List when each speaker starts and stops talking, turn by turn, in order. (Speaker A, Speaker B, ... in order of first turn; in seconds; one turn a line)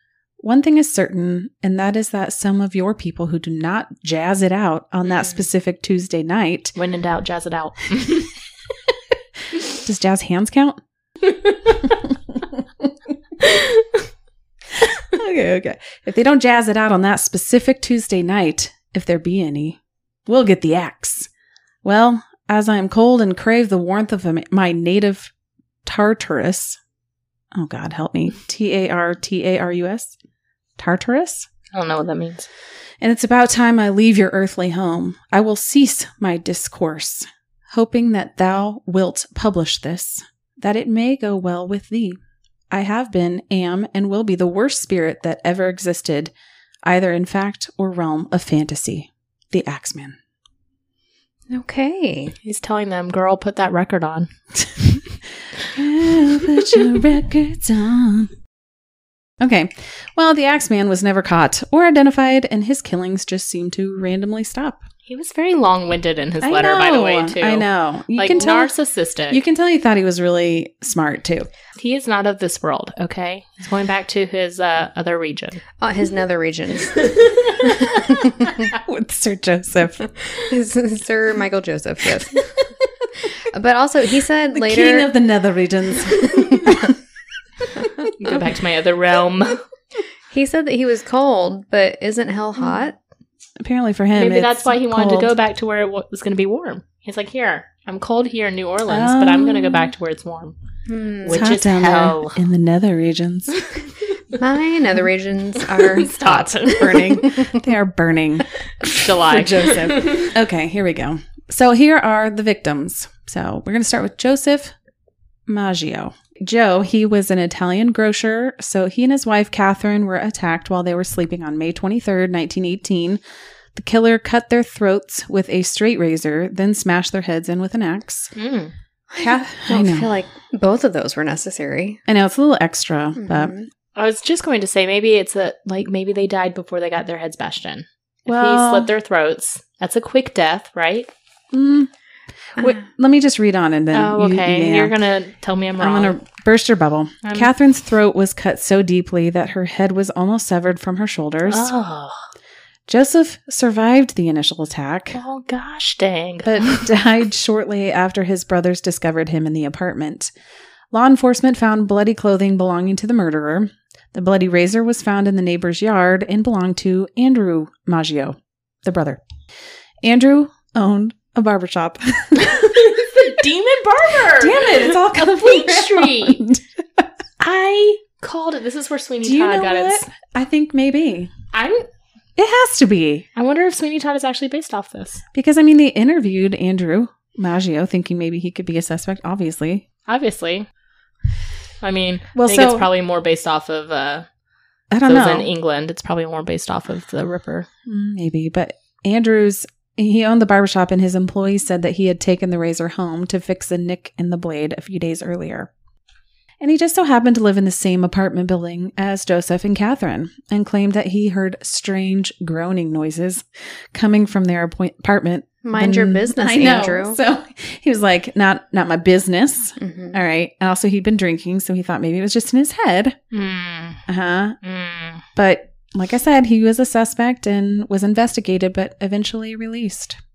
Speaker A: 0.4-6.7
Speaker B: 6.8-8.3
Speaker A: 9.7-10.8
Speaker B: 11.5-11.8
Speaker B: 13.4-14.0
Speaker A: 14.8-21.3
Speaker A: 21.8-25.3
Speaker A: 25.8-26.8
Speaker A: 27.5-30.1
Speaker A: 30.8-31.5
Speaker B: 31.7-32.5
Speaker A: 33.0-42.2
Speaker A: 42.7-46.3
Speaker A: 46.8-50.2
Speaker C: 51.5-52.3
Speaker B: 52.4-54.3
Speaker A: 55.7-58.3
Speaker A: 59.4-64.8
Speaker B: 65.1-69.4
Speaker A: 66.4-68.7
Speaker A: 69.3-71.5
Speaker B: 71.8-75.6
Speaker C: 75.8-78.7
Speaker B: 77.0-77.8
Speaker A: 78.7-80.0
Speaker C: 80.4-82.4
Speaker C: 83.5-85.1
Speaker A: 84.5-86.9
Speaker C: 86.2-86.8
Speaker A: 87.8-88.1
Speaker B: 88.2-89.6
Speaker C: 90.3-93.0
Speaker A: 93.6-95.3
Speaker B: 94.1-100.5
Speaker A: 98.9-99.9
Speaker C: 100.9-101.5
Speaker B: 101.2-102.4
Speaker A: 101.3-103.6
Speaker C: 104.3-106.4
Speaker B: 105.8-107.3
Speaker A: 106.2-114.7
Speaker B: 108.8-110.3
Speaker A: 115.5-123.2
Speaker A: 123.7-128.3
Speaker B: 128.3-128.7
Speaker C: 129.1-132.0
Speaker A: 129.2-130.1
Speaker A: 132.1-133.6
Speaker C: 133.2-133.7
Speaker B: 133.9-141.1
Speaker A: 138.3-138.9
Speaker A: 141.5-141.9
Speaker A: 142.6-144.9
Speaker B: 143.9-146.2
Speaker A: 145.8-151.7
Speaker B: 147.2-147.5
Speaker B: 151.5-152.2
Speaker A: 152.9-155.2
Speaker B: 155.1-156.9
Speaker A: 156.4-160.3
Speaker A: 160.9-169.2
Speaker A: 170.0-173.3
Speaker B: 172.4-176.4
Speaker A: 174.3-177.1
Speaker B: 177.4-180.1
Speaker A: 179.2-181.3
Speaker B: 181.5-181.8
Speaker A: 182.3-183.2
Speaker B: 183.3-185.2
Speaker A: 185.3-189.8
Speaker B: 190.1-190.7
Speaker B: 191.8-194.3
Speaker A: 192.3-192.9
Speaker A: 194.9-195.5
Speaker B: 195.0-197.7
Speaker A: 197.8-205.7
Speaker A: 206.6-223.2
Speaker C: 215.6-217.2
Speaker C: 219.8-220.2
Speaker B: 223.3-224.0
Speaker A: 224.1-224.6
Speaker B: 224.6-225.2
Speaker A: 225.3-230.2